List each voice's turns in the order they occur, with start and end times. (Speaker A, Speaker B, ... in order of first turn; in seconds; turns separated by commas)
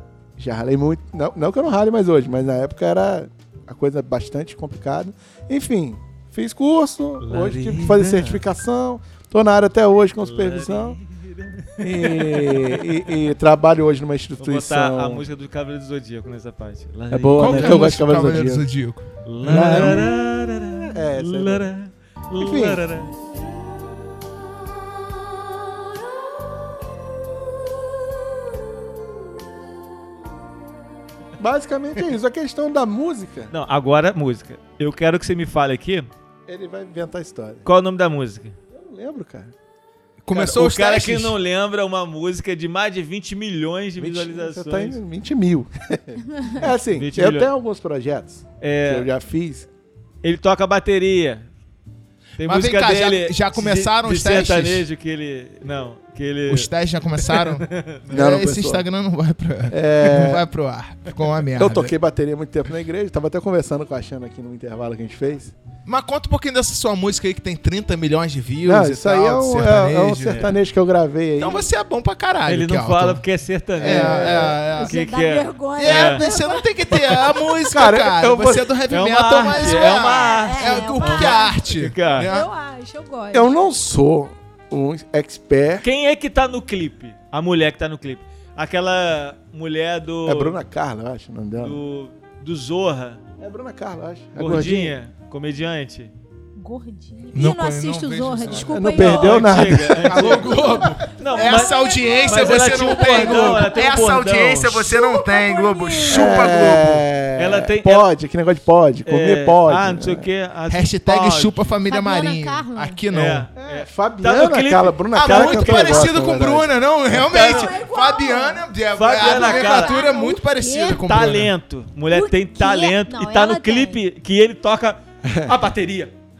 Speaker A: 0.4-11.0, Speaker B: 7.2-8.4, Speaker B: 10.2-12.8, Speaker A: 11.8-15.2, Speaker B: 14.4-17.9, Speaker A: 17.1-18.6, Speaker C: 17.4-20.1, Speaker B: 19.2-23.2, Speaker A: 19.4-20.1, Speaker A: 20.9-21.7, Speaker A: 22.4-22.9, Speaker A: 31.4-33.5, Speaker B: 33.5-36.1, Speaker A: 36.5-37.6, Speaker B: 37.6-38.6, Speaker A: 38.7-39.5, Speaker C: 40.2-41.4, Speaker B: 40.3-45.0, Speaker A: 44.0-49.7, Speaker B: 47.0-47.5, Speaker B: 48.6-49.1, Speaker B: 50.2-51.5, Speaker B: 52.4-58.2, Speaker C: 52.4-54.9, Speaker C: 56.5-61.9, Speaker A: 58.1-58.8, Speaker A: 59.7-60.5, Speaker A: 61.6-65.5, Speaker C: 65.9-70.5, Speaker A: 68.7-71.7, Speaker B: 70.3-70.5, Speaker C: 71.4-73.2, Speaker B: 72.5-76.2, Speaker A: 73.8-74.6, Speaker C: 73.8-75.0, Speaker D: 74.7-77.6, Speaker C: 75.8-82.5, Speaker A: 77.7-78.7, Speaker B: 78.9-82.3, Speaker D: 79.4-81.6, Speaker D: 82.2-83.5, Speaker A: 83.3-85.9, Speaker B: 85.8-90.6, Speaker A: 90.3-91.8, Speaker B: 91.6-93.2, Speaker A: 93.4-95.0, Speaker B: 94.4-96.1, Speaker D: 96.6-99.8, Speaker C: 97.3-98.9, Speaker A: 98.5-101.1, Speaker B: 98.9-100.5, Speaker C: 100.0-107.0, Speaker B: 101.1-104.9, Speaker D: 101.3-103.9, Speaker D: 104.8-106.8, Speaker A: 106.1-110.3, Speaker B: 107.4-108.1, Speaker B: 109.1-111.6, Speaker C: 110.7-113.5, Speaker D: 111.9-113.0, Speaker B: 113.1-116.2, Speaker A: 113.6-116.7, Speaker C: 115.2-121.5, Speaker B: 117.2-117.8, Speaker D: 117.3-121.1, Speaker B: 119.0-120.0, Speaker B: 120.9-126.1, Speaker D: 122.1-124.0, Speaker A: 125.2-125.5